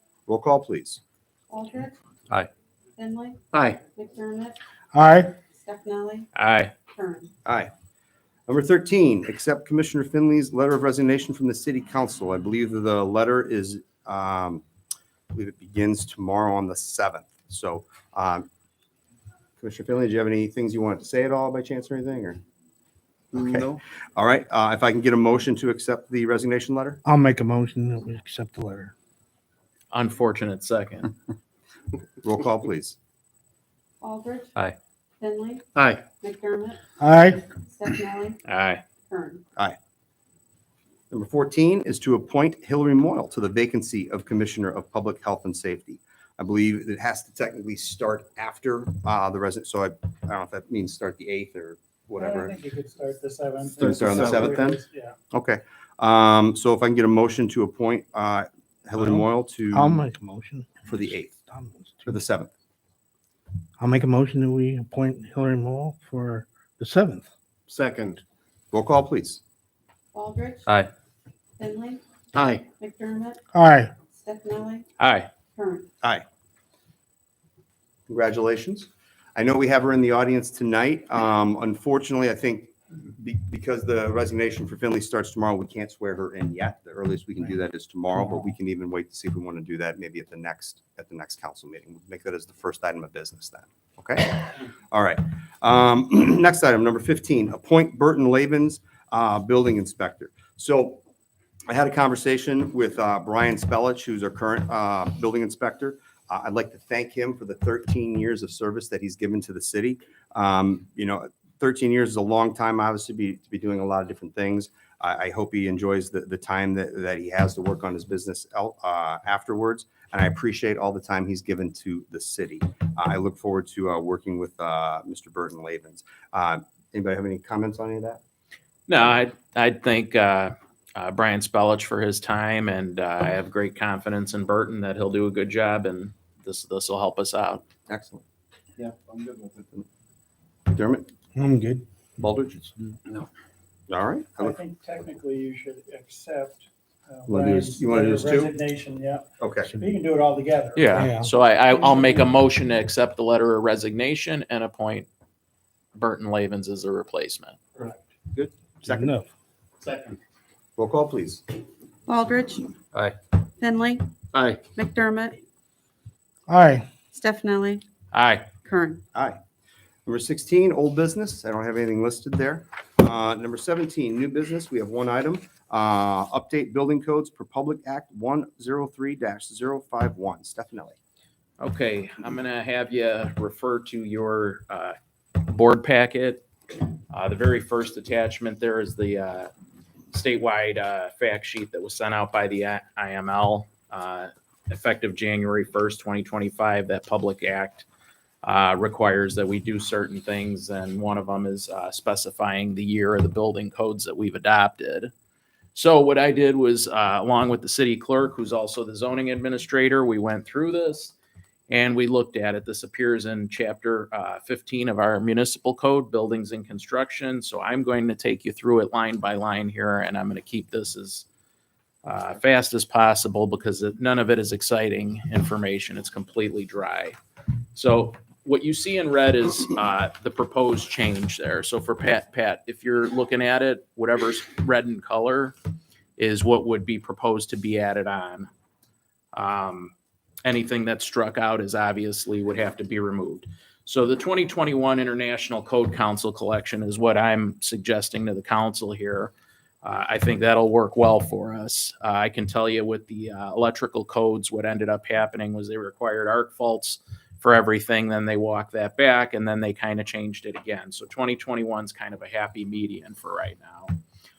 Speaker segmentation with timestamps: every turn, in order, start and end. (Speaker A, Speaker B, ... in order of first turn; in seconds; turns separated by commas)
Speaker A: 0.3-1.0, Speaker B: 1.5-2.0, Speaker B: 3.0-4.6, Speaker C: 3.5-3.8, Speaker D: 4.9-5.3, Speaker B: 5.5-6.3, Speaker E: 6.3-6.7, Speaker B: 6.9-7.3, Speaker A: 7.4-7.7, Speaker A: 8.5-14.6, Speaker A: 15.3-18.5, Speaker A: 19.6-22.4, Speaker A: 23.3-27.0, Speaker C: 23.3-23.8, Speaker D: 27.0-28.9, Speaker E: 29.9-31.1, Speaker A: 32.2-33.0, Speaker B: 34.0-34.5, Speaker B: 35.2-35.6, Speaker C: 35.8-36.0, Speaker B: 36.1-38.4, Speaker D: 37.0-37.4, Speaker E: 38.5-38.8, Speaker B: 39.1-39.4, Speaker A: 41.1-52.6, Speaker F: 52.2-55.1, Speaker A: 53.8-54.8, Speaker C: 53.8-54.7, Speaker A: 55.3-60.0, Speaker D: 59.0-62.2, Speaker A: 60.9-61.3, Speaker A: 62.0-62.5, Speaker D: 63.8-67.2, Speaker C: 67.7-68.2, Speaker A: 68.7-69.4, Speaker B: 70.1-70.7, Speaker C: 70.7-70.9, Speaker B: 71.6-72.0, Speaker C: 72.3-72.6, Speaker B: 72.8-73.4, Speaker D: 73.5-73.9, Speaker B: 74.1-74.8, Speaker E: 75.0-75.3, Speaker B: 75.5-75.9, Speaker A: 78.1-101.0, Speaker A: 101.7-128.2, Speaker E: 128.9-137.6, Speaker A: 137.9-138.2, Speaker C: 138.8-139.6, Speaker A: 140.7-141.1, Speaker D: 141.3-141.8, Speaker A: 142.2-142.7, Speaker A: 143.9-144.6, Speaker F: 144.4-151.1, Speaker A: 147.3-148.6, Speaker A: 149.4-149.7, Speaker E: 150.7-155.1, Speaker D: 150.9-151.3, Speaker F: 151.7-152.3, Speaker E: 155.9-157.6, Speaker A: 158.3-159.1, Speaker D: 158.8-159.2, Speaker C: 159.8-160.2, Speaker A: 160.8-161.4, Speaker B: 162.1-162.7, Speaker B: 163.6-164.1, Speaker C: 164.3-164.6, Speaker B: 164.7-165.4, Speaker D: 166.5-166.9, Speaker B: 167.1-167.8, Speaker E: 168.1-168.5, Speaker B: 168.6-169.0, Speaker A: 169.1-169.4, Speaker A: 170.1-181.0, Speaker E: 181.6-186.4, Speaker E: 187.1-189.5, Speaker E: 190.1-197.8, Speaker E: 198.4-205.1, Speaker E: 205.7-211.1, Speaker E: 211.7-221.2, Speaker E: 222.0-227.2, Speaker E: 227.7-235.5, Speaker E: 236.2-238.5, Speaker E: 239.3-239.9, Speaker E: 240.4-249.3, Speaker E: 249.8-263.9